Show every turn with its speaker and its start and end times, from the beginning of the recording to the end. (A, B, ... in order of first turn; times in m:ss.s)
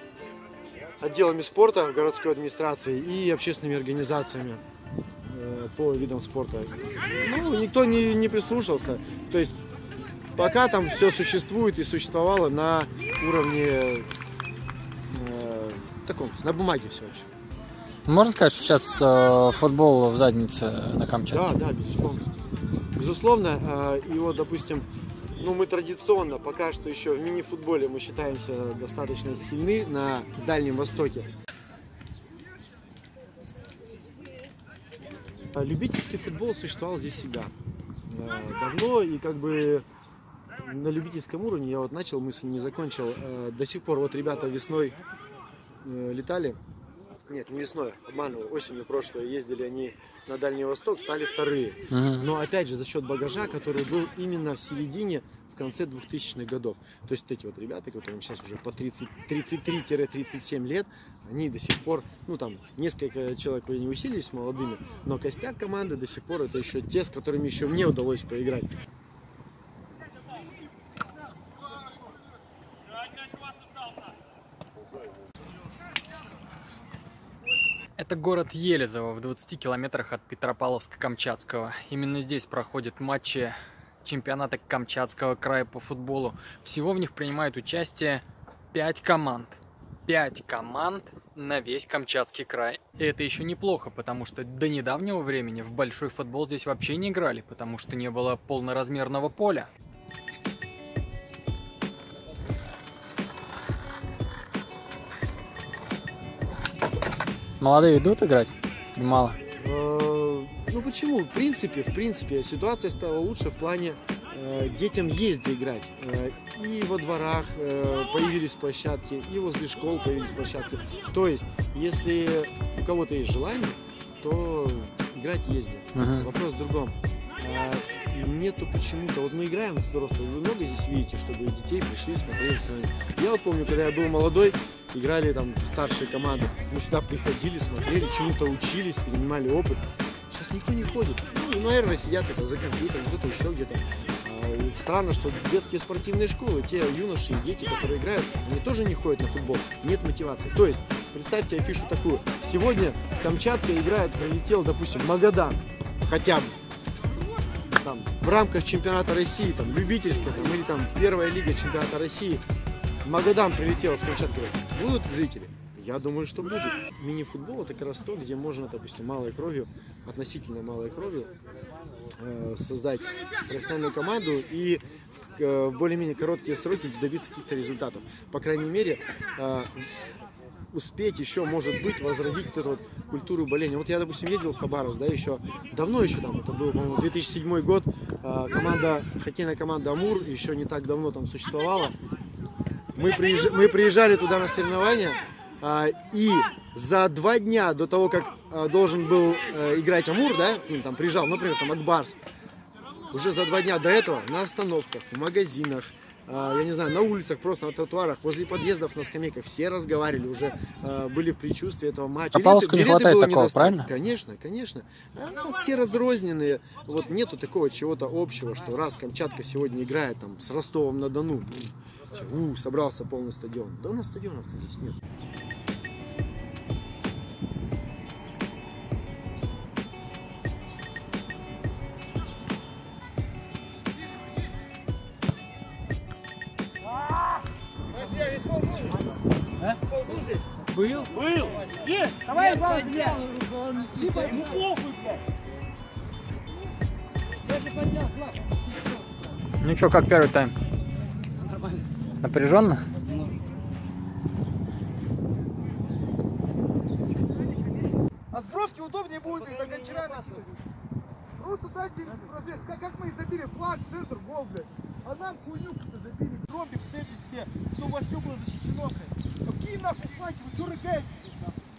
0:01.0-0:04.6 A
0:05.2-0:09.6 A
0:10.3-0:14.1 A
0:15.1-0:17.3 A
0:18.0-0:21.4 B
0:21.3-0:22.2 A
0:23.0-0:31.3 A
0:35.5-0:37.5 A
0:38.1-0:39.8 A
0:40.6-0:45.0 A
0:45.8-0:46.6 A
0:47.3-1:08.7 A
0:51.9-0:52.3 B
1:18.0-1:39.7 B
1:47.6-1:49.4 B
1:49.6-2:36.6 A
2:05.9-2:06.3 B
2:37.7-2:42.4 A
2:43.0-2:51.3 A
2:52.1-2:59.9 A
3:00.7-3:11.9 A
3:12.9-3:22.2 A
3:23.1-3:45.0 A
3:32.3-3:33.9 B
4:00.8-4:01.1 C
4:02.2-4:04.6 C
4:09.6-4:10.5 B
4:11.3-4:11.9 C
4:12.2-4:12.9 B
4:13.0-4:13.4 C
4:18.3-4:20.4 D
4:21.4-4:29.1 D
4:22.0-4:22.2 A
4:27.8-4:28.8 A
4:29.5-4:30.9 A
4:29.8-4:31.2 D